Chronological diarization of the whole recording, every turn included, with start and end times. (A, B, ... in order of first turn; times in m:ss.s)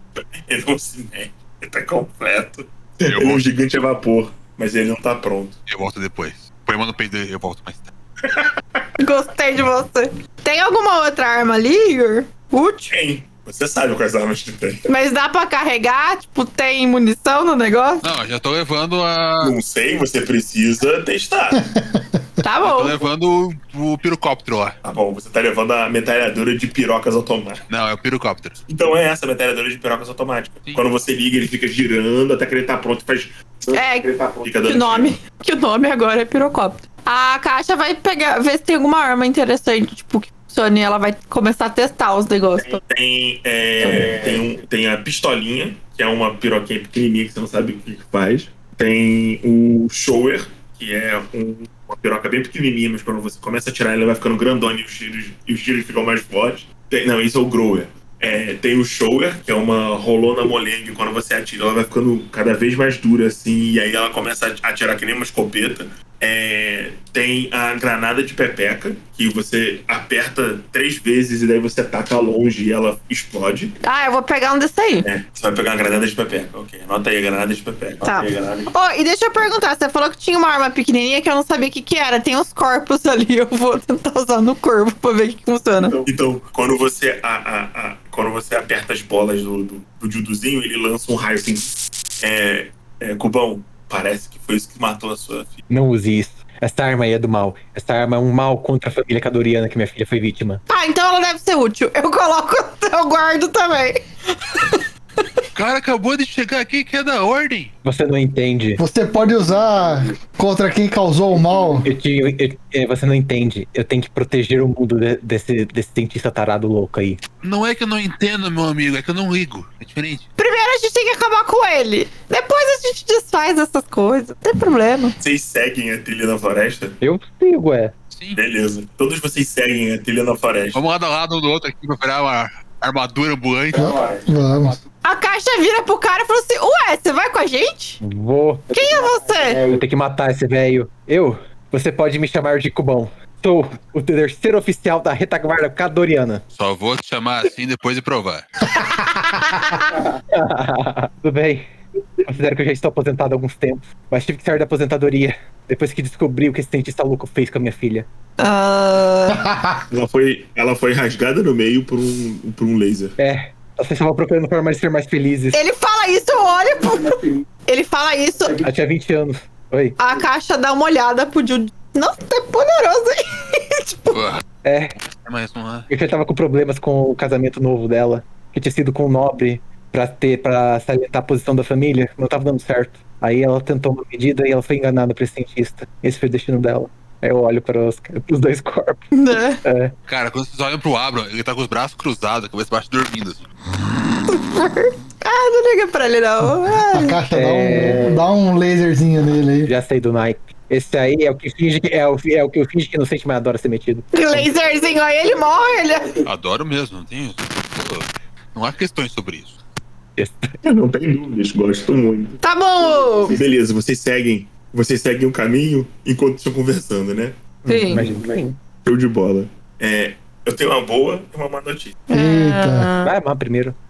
0:00.5-0:05.6 A
0:03.1-0:03.5 B
0:05.7-0:07.9 B
0:08.2-0:08.9 A
0:09.0-0:12.9 C
0:12.9-0:14.8 A
0:14.8-0:18.0 C
0:18.0-0:19.5 B
0:19.4-0:21.6 A
0:21.6-0:22.2 D
0:22.4-0:23.0 C
0:22.6-0:24.8 B
0:24.8-0:27.6 A
0:27.7-0:28.6 B
0:28.7-0:35.1 A
0:33.7-0:42.8 C
0:42.7-1:13.8 A
1:13.8-1:15.1 C
1:15.0-1:18.7 A
1:18.0-1:26.0 C
1:25.8-1:35.6 A
1:35.7-1:40.6 E
1:40.7-1:45.4 C
1:45.5-1:47.7 B
1:47.8-1:48.8 E
1:48.8-1:51.9 D
1:51.8-1:57.2 E
1:57.4-2:00.3 B
2:00.4-2:05.2 C
2:05.2-2:07.0 A
2:07.0-2:07.9 E
2:08.1-2:08.4 B
2:08.4-2:10.8 A
2:10.7-2:14.0 B
2:13.7-2:14.8 D
2:15.0-2:18.0 C
2:18.0-2:18.8 E
2:18.7-2:19.7 C
2:19.6-2:26.4 E
2:26.5-2:28.5 B
2:30.3-2:31.6 E
2:32.2-2:38.1 E
2:38.4-2:39.4 C
2:39.4-2:39.8 D
2:39.9-2:43.2 A
2:43.2-2:45.6 E
2:45.5-2:48.6 C
2:48.6-2:50.0 E
2:50.0-2:54.2 C
2:54.1-2:54.4 B
2:54.6-2:54.9 E
2:55.1-2:55.9 B
2:55.9-3:09.9 E
3:09.1-3:09.6 C
3:10.1-3:13.5 B
3:14.3-3:17.2 C
3:16.9-3:19.7 D
3:17.3-3:18.2 E
3:19.6-3:24.5 E
3:24.1-3:26.2 C
3:26.2-3:29.6 B
3:30.2-3:30.5 E
3:30.6-3:32.4 A
3:32.4-3:33.4 C
3:33.3-3:38.0 A
3:37.7-3:38.1 C
3:37.7-3:38.5 E
3:38.8-3:42.0 A
3:42.1-3:43.1 C
3:42.1-3:42.9 D
3:43.0-3:43.8 E